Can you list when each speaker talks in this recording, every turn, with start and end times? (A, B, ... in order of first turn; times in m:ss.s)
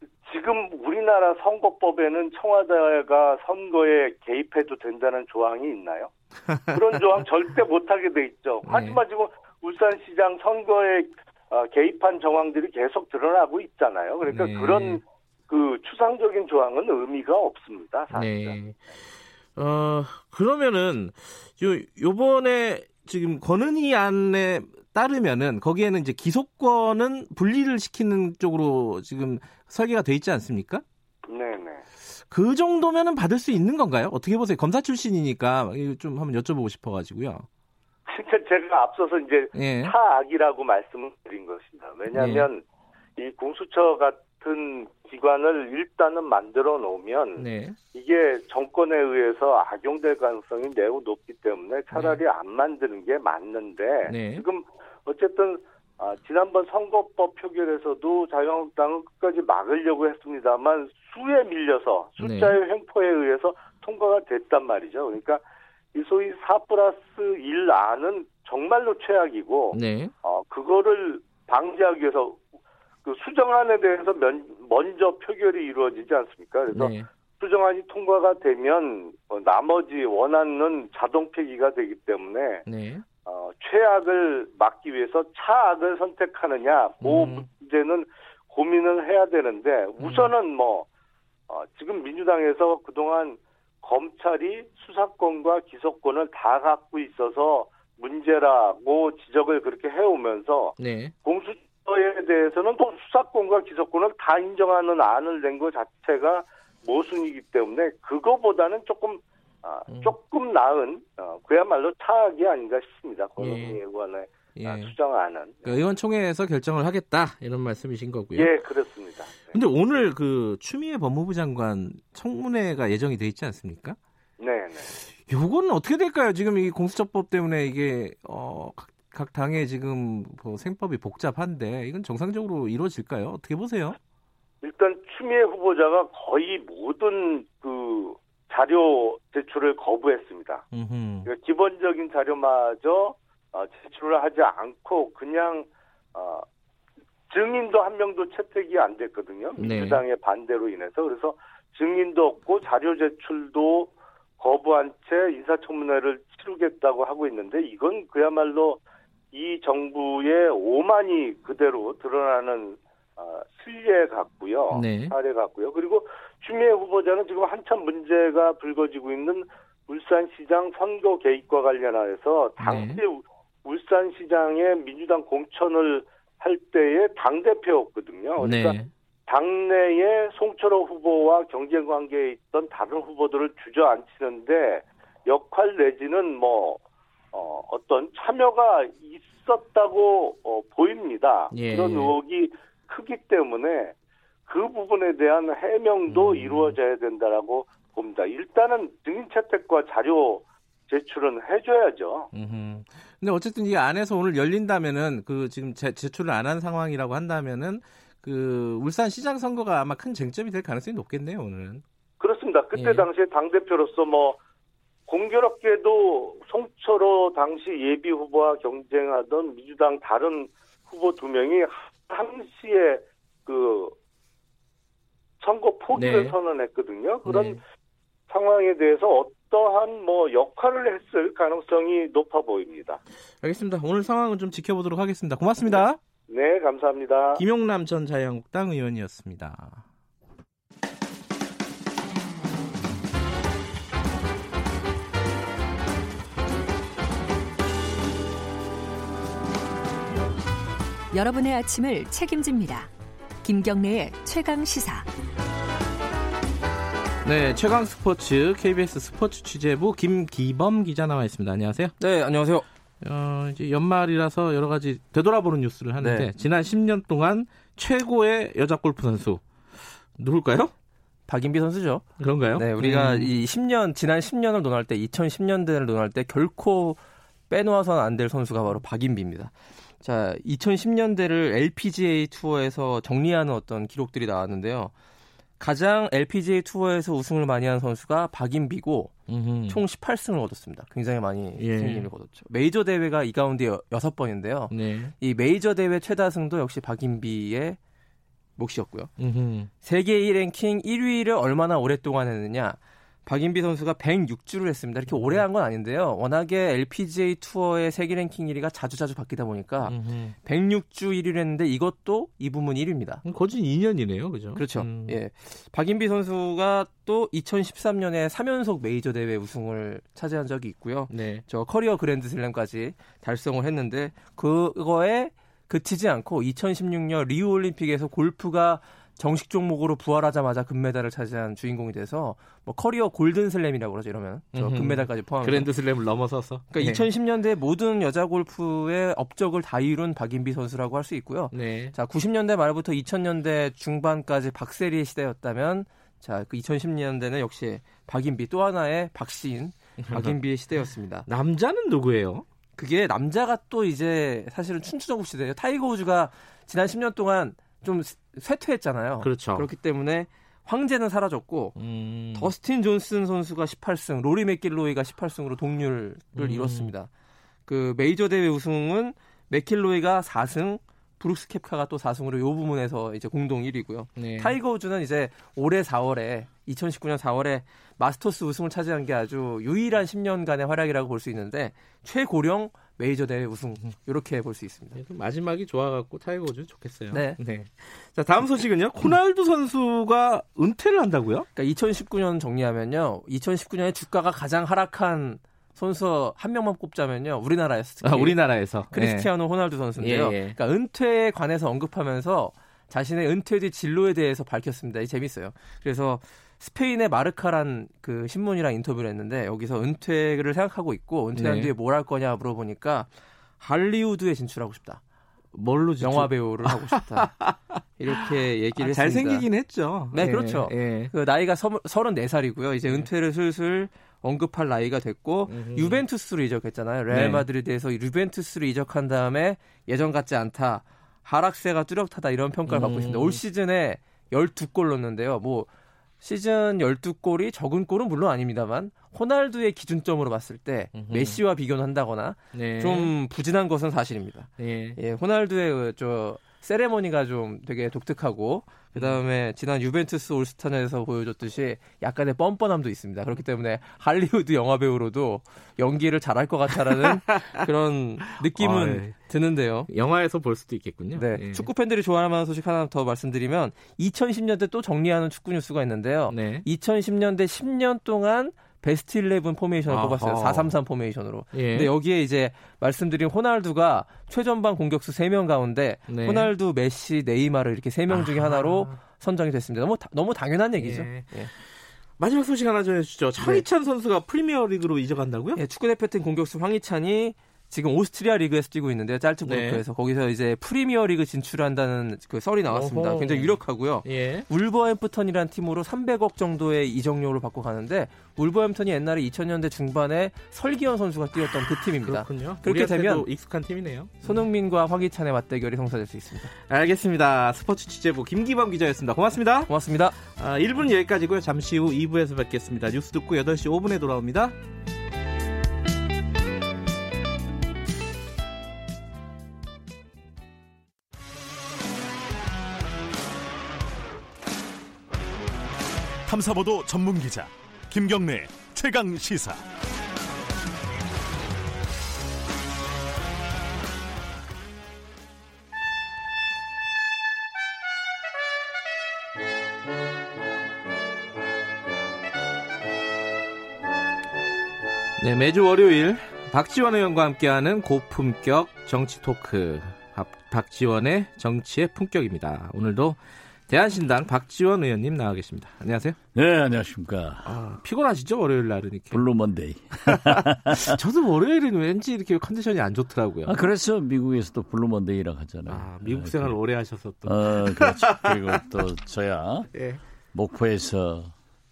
0:00.3-0:06.1 A
0:06.7-0:18.6 A
0:08.6-0:09.0 B
0:14.3-0:15.0 B
0:18.1-0:18.9 B
0:19.6-0:30.8 B
0:31.3-0:31.8 A
0:32.3-0:37.5 B
0:38.1-0:42.6 A
0:39.5-0:40.0 B
0:42.1-0:42.5 B
0:43.2-1:05.4 A
0:47.4-0:47.8 B
0:51.9-0:52.2 B
0:54.1-0:54.4 B
1:02.2-1:02.6 B
1:05.9-1:12.4 A
1:09.7-1:10.1 B
1:13.0-1:22.6 A
1:16.7-1:17.1 B
1:22.7-1:23.0 B
1:23.3-1:30.9 A
1:27.0-1:27.5 B
1:30.0-1:30.3 B
1:31.5-1:55.8 A
1:40.8-1:41.1 B
1:49.9-1:50.2 B
1:53.4-1:53.8 B
1:54.6-1:54.9 B
1:55.6-1:58.5 B
1:58.4-1:59.6 A
1:59.5-2:04.0 B
2:04.4-2:05.0 A
2:05.2-2:14.0 B
2:14.6-2:20.6 A
2:20.7-2:21.3 B
2:21.3-2:26.4 A
2:27.3-2:38.8 A
2:29.6-2:30.0 B
2:39.3-3:06.8 A
2:44.7-2:45.2 B
2:52.6-2:53.0 B
2:58.4-2:58.9 B
3:07.3-3:13.9 A
3:11.5-3:12.2 B
3:14.5-3:22.3 A
3:16.1-3:16.8 B
3:22.3-3:31.8 B
3:32.2-3:34.4 A
3:32.7-3:33.1 B
3:35.1-3:44.0 A
3:45.4-3:47.6 A
3:45.9-3:46.4 B
3:47.2-3:47.6 B
3:48.3-3:53.0 A
3:53.4-3:56.0 B
3:56.3-3:57.4 A
3:57.4-3:59.8 B
4:11.1-4:12.9 C
4:13.4-4:15.1 C
4:17.2-4:22.0 B
4:22.0-4:22.6 D
4:23.0-4:29.5 B
4:26.0-4:26.3 D
4:30.2-4:30.7 B
4:31.3-4:32.0 D
4:32.2-4:33.3 B
4:32.6-4:44.9 D
4:45.6-4:57.8 D
4:49.3-4:49.8 B
4:51.6-4:52.1 B
4:54.7-4:55.1 B
4:58.6-4:59.1 D
4:59.2-4:59.7 B
4:59.8-5:13.2 D
5:05.2-5:05.4 B
5:09.8-5:10.4 B
5:13.2-5:15.2 B
5:14.6-5:35.7 D
5:21.1-5:21.4 B
5:34.5-5:37.1 B
5:36.7-5:51.2 D
5:41.5-5:42.0 B
5:50.1-5:50.4 B
5:51.3-5:52.4 B
5:52.8-6:01.8 D
5:59.2-5:59.7 B
6:01.8-6:02.5 B
6:02.4-6:07.1 D
6:06.4-6:06.9 B
6:07.7-6:25.0 D
6:14.2-6:14.6 B
6:24.9-6:31.5 B
6:27.1-6:27.4 D
6:31.6-6:55.0 D
6:38.0-6:39.3 B
6:40.0-6:40.6 B
6:51.4-6:51.7 B
6:55.5-7:01.1 B
6:56.0-6:59.5 D
7:00.1-7:15.7 D
7:05.5-7:06.0 B
7:07.1-7:07.4 B
7:12.7-7:13.4 B
7:16.2-7:39.9 D
7:20.9-7:21.4 B
7:22.5-7:23.1 B
7:24.6-7:25.0 B
7:28.9-7:29.2 B
7:36.7-7:37.6 B
7:38.3-7:39.2 B
7:39.9-7:41.7 B
7:41.2-8:01.5 D
7:46.3-7:46.7 B
7:49.9-7:50.8 B
7:51.5-7:51.9 B
7:56.1-7:56.5 B
7:58.1-7:59.0 B
8:00.8-8:05.6 B
8:05.6-8:23.3 D
8:09.4-8:09.8 B
8:12.7-8:14.5 B
8:22.0-8:24.4 B
8:24.2-8:26.5 D
8:26.6-8:34.6 B
8:29.7-8:30.2 D
8:46.3-8:49.6 E
9:05.2-9:16.2 B
9:16.4-9:17.5 F
9:17.4-9:19.2 B
9:19.1-9:21.0 F
9:20.1-9:23.6 B
9:23.5-9:26.6 F
9:25.7-9:28.9 B
9:27.2-9:29.7 F
9:29.7-9:30.0 B
9:30.3-9:31.3 F